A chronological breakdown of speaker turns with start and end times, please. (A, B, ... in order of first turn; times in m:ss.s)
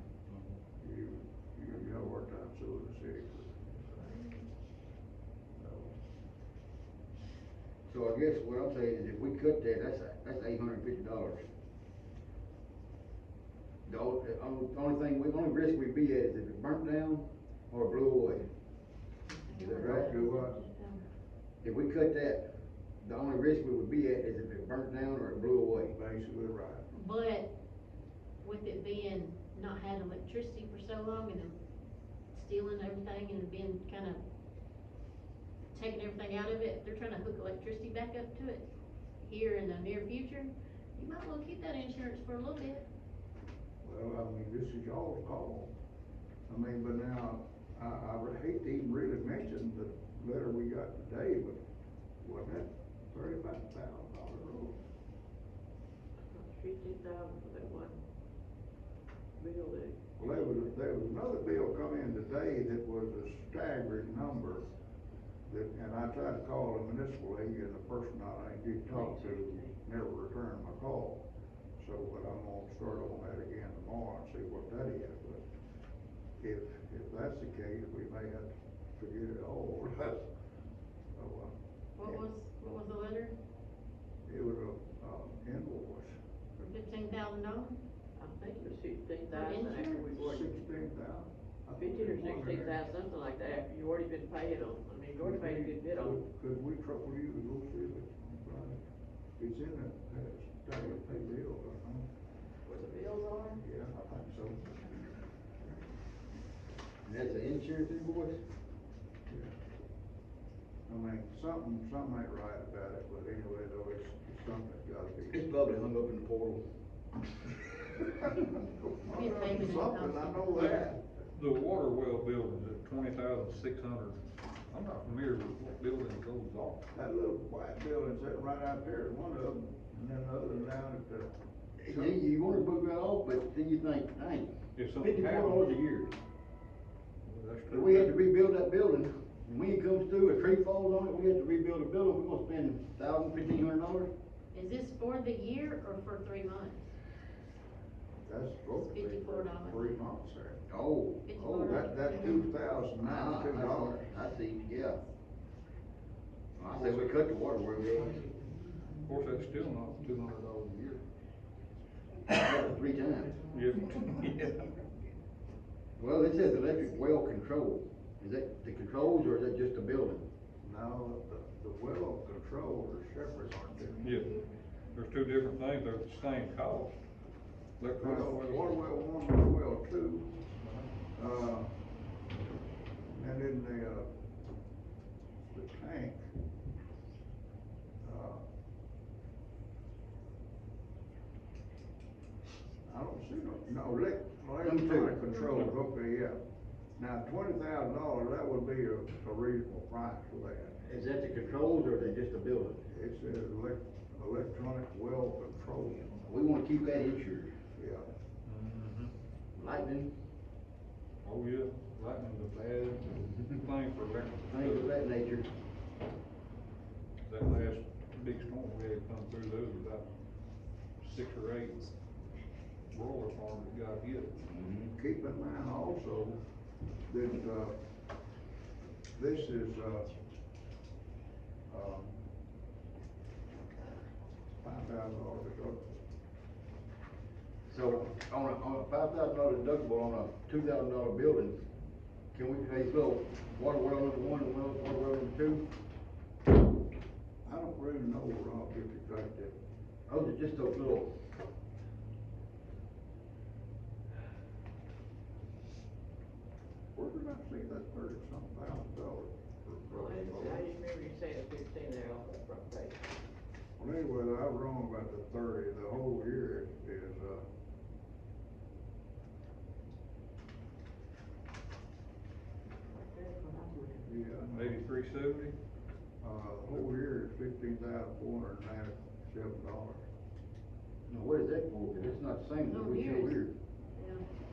0:00.8-0:04.1 A
0:05.6-0:06.0 A
0:07.9-0:11.5 B
0:13.9-0:18.4 B
0:19.3-0:21.0 C
0:19.5-0:20.1 B
0:19.7-0:20.6 A
0:21.6-0:22.5 B
0:23.0-0:26.0 B
0:25.9-0:26.9 A
0:26.9-0:27.5 C
0:28.4-0:31.6 C
0:32.3-0:34.2 C
0:35.7-0:38.7 C
0:39.2-0:42.8 C
0:43.8-0:45.7 A
0:46.5-0:51.6 A
0:52.2-0:54.8 A
0:56.3-0:58.0 D
0:59.4-1:00.5 D
1:00.2-1:04.7 A
1:05.5-1:11.2 A
1:08.9-1:09.8 D
1:11.8-1:15.4 A
1:16.4-1:20.3 A
1:21.2-1:22.2 A
1:22.0-1:23.4 C
1:24.3-1:26.2 A
1:26.6-1:27.8 C
1:28.2-1:30.5 D
1:29.3-1:30.1 C
1:30.0-1:32.8 A
1:31.8-1:36.2 D
1:35.2-1:38.8 A
1:39.4-1:42.1 A
1:42.6-1:43.6 D
1:43.6-1:45.8 A
1:47.0-1:48.4 B
1:49.3-1:49.5 A
1:50.9-1:55.5 A
1:55.3-1:56.6 B
1:58.0-2:01.1 A
1:59.1-2:00.8 C
2:00.6-2:06.8 E
2:06.9-2:11.3 A
2:11.8-2:16.1 B
2:11.8-2:12.2 A
2:14.8-2:15.7 E
2:17.2-2:18.3 E
2:17.7-2:24.1 B
2:24.5-2:26.9 C
2:28.2-2:30.6 A
2:28.8-2:30.0 C
2:30.7-2:31.8 B
2:31.3-2:32.5 C
2:31.6-2:34.0 A
2:33.0-2:35.0 B
2:36.6-2:38.3 B
2:36.6-2:37.1 E
2:39.0-2:41.0 E
2:42.3-2:43.4 B
2:43.5-2:44.8 E
2:46.0-2:50.3 B
2:50.6-2:54.1 A
2:54.0-2:54.3 E
2:54.9-2:57.0 E
2:57.8-2:58.8 E
2:58.0-3:00.4 A
3:00.6-3:00.9 E
3:01.2-3:01.7 A
3:03.1-3:04.1 A
3:05.5-3:06.2 A
3:08.0-3:08.4 A
3:12.9-3:16.4 A
3:14.6-3:15.2 B
3:17.0-3:20.8 A
3:20.8-3:22.8 B
3:22.9-3:26.3 A
3:26.3-3:27.5 B
3:27.8-3:28.1 A
3:28.4-3:29.1 E
3:29.6-3:30.1 B
3:31.2-3:34.9 E
3:34.5-3:35.5 B
3:37.3-3:40.1 E
3:41.0-3:41.9 E
3:42.9-3:44.4 E
3:44.4-3:44.9 B
3:44.8-3:46.4 A
3:47.1-3:47.8 A
3:49.1-3:50.1 A
3:51.7-3:52.2 A
3:54.6-3:56.0 A
3:57.7-4:01.6 B
4:02.3-4:05.7 B
4:07.4-4:09.6 A
4:10.1-4:11.1 B
4:17.0-4:20.7 A
4:19.9-4:23.0 D
4:23.8-4:27.4 A
4:33.0-4:33.9 D
4:34.0-4:34.8 A
4:34.5-4:35.6 E
4:36.2-4:40.1 A
4:41.1-4:43.5 B
4:42.6-4:43.4 C
4:44.0-4:44.2 C